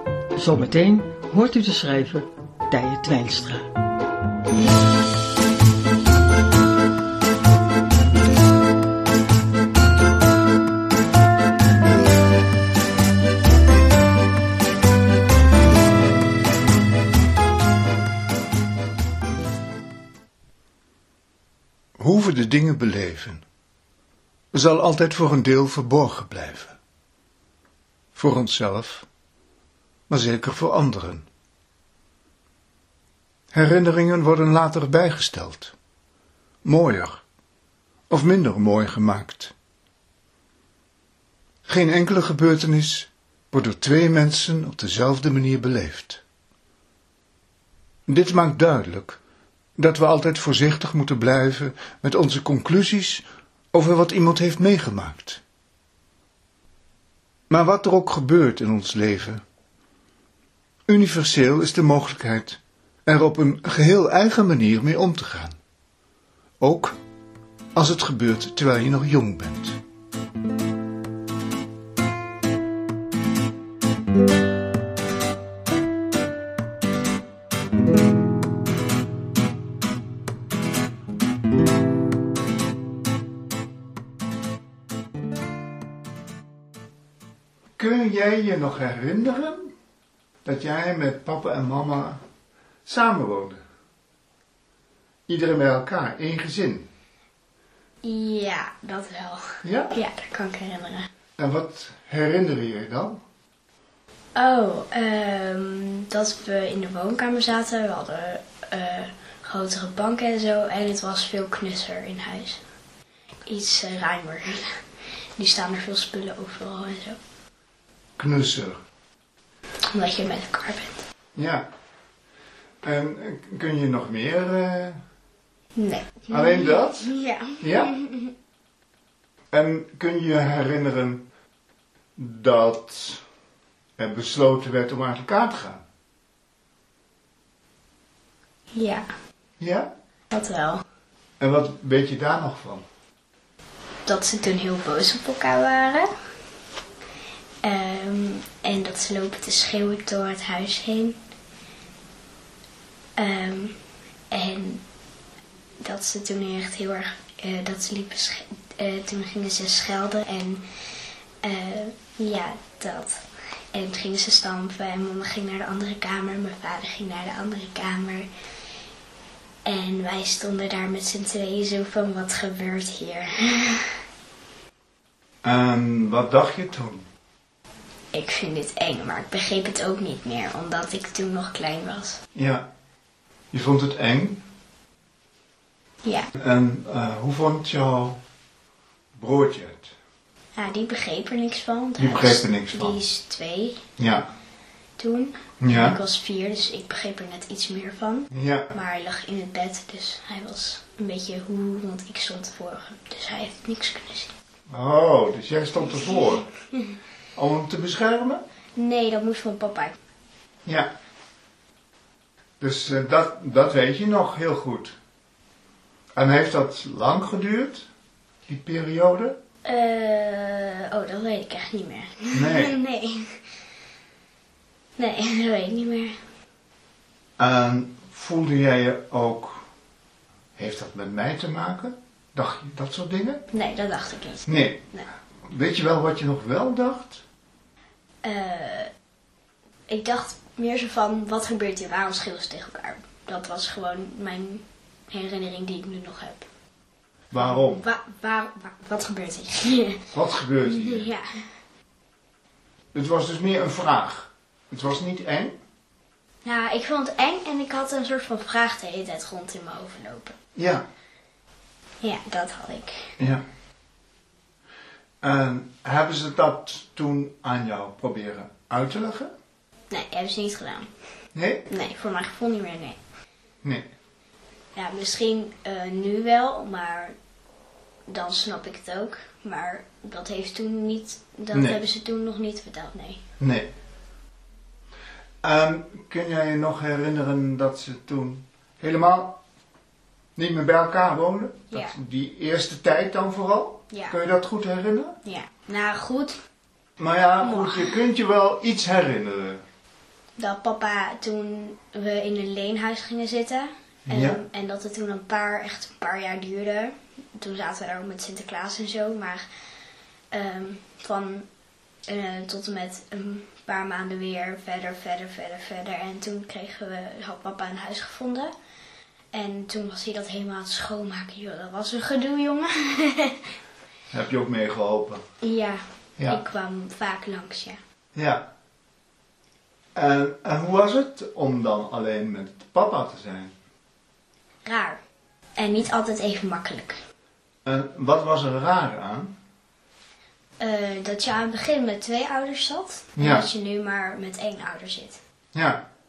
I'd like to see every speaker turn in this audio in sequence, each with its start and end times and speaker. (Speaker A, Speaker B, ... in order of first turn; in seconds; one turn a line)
Speaker A: 0.3-3.7
Speaker B: 22.0-23.4
Speaker B: 24.5-26.8
Speaker B: 28.1-29.1
Speaker B: 30.1-31.3
Speaker B: 33.5-35.7
Speaker B: 36.6-37.2
Speaker B: 38.1-39.5
Speaker B: 41.7-46.2
Speaker B: 48.1-49.2
Speaker B: 49.8-55.4
Speaker B: 57.5-59.4
Speaker B: 60.9-65.6
Speaker B: 66.6-67.0
Speaker B: 67.8-69.8
Speaker B: 87.8-89.7
Speaker B: 90.5-92.2
Speaker B: 92.9-93.6
Speaker B: 95.3-96.9
Speaker C: 98.0-101.1
Speaker B: 99.6-100.0
Speaker B: 101.4-103.2
Speaker C: 104.4-112.6
Speaker C: 113.5-114.8
Speaker C: 115.4-117.2
Speaker B: 118.2-118.8
Speaker C: 119.9-121.0
Speaker B: 121.3-121.7
Speaker B: 122.8-125.0
Speaker C: 125.8-128.3
Speaker B: 126.3-127.1
Speaker B: 127.6-127.9
Speaker B: 129.5-131.3
Speaker B: 132.2-133.2
Speaker B: 134.0-135.8
Speaker C: 138.7-139.1
Speaker B: 139.6-139.9
Speaker C: 140.3-140.8
Speaker B: 141.4-142.8
Speaker C: 144.1-146.1
Speaker C: 147.6-151.2
Speaker C: 153.2-153.8
Speaker C: 154.3-154.8
Speaker C: 155.8-160.6
Speaker C: 161.4-168.3
Speaker C: 169.7-174.0
Speaker B: 175.4-177.1
Speaker C: 178.1-182.2
Speaker B: 182.3-182.7
Speaker B: 183.5-184.4
Speaker C: 186.0-186.3
Speaker B: 186.4-188.2
Speaker B: 189.2-189.9
Speaker C: 190.6-193.8
Speaker B: 192.0-193.0
Speaker B: 194.0-194.3
Speaker C: 195.0-204.3
Speaker B: 195.6-196.0
Speaker B: 198.3-198.8
Speaker B: 204.7-206.5
Speaker B: 207.3-208.4
Speaker C: 208.8-210.0
Speaker B: 210.7-210.9
Speaker B: 212.6-215.0
Speaker B: 216.2-217.9
Speaker B: 218.5-219.4
Speaker C: 219.7-223.4
Speaker B: 222.3-222.8
Speaker C: 225.0-226.2
Speaker B: 227.4-229.7
Speaker B: 230.6-233.4
Speaker C: 233.5-235.1
Speaker B: 234.5-234.8
Speaker B: 235.5-237.2
Speaker C: 238.2-238.9
Speaker C: 239.9-246.5
Speaker B: 247.3-247.8
Speaker C: 247.4-250.0
Speaker B: 250.1-251.1
Speaker C: 250.6-251.4
Speaker B: 252.9-255.6
Speaker C: 256.4-260.4
Speaker B: 260.6-260.8
Speaker C: 262.0-263.1
Speaker B: 265.2-269.3
Speaker C: 269.9-270.9
Speaker B: 271.3-271.7
Speaker C: 271.7-273.0
Speaker C: 274.7-277.1
Speaker C: 278.1-283.2
Speaker B: 281.5-281.8
Speaker B: 283.4-283.7
Speaker B: 285.4-289.4
Speaker B: 290.4-295.1
Speaker C: 291.7-291.9
Speaker C: 293.9-294.2
Speaker C: 295.2-296.4
Speaker B: 297.0-299.6
Speaker C: 297.4-298.1
Speaker C: 300.4-309.4
Speaker B: 304.1-304.4
Speaker C: 310.3-311.5
Speaker C: 312.1-318.5
Speaker C: 319.3-323.5
Speaker B: 324.1-325.2
Speaker C: 325.4-327.8
Speaker B: 328.1-328.5
Speaker B: 329.9-333.5
Speaker C: 334.6-335.0
Speaker C: 335.6-337.0
Speaker B: 337.6-339.3
Speaker C: 340.6-345.2
Speaker B: 343.2-343.5
Speaker B: 345.5-345.8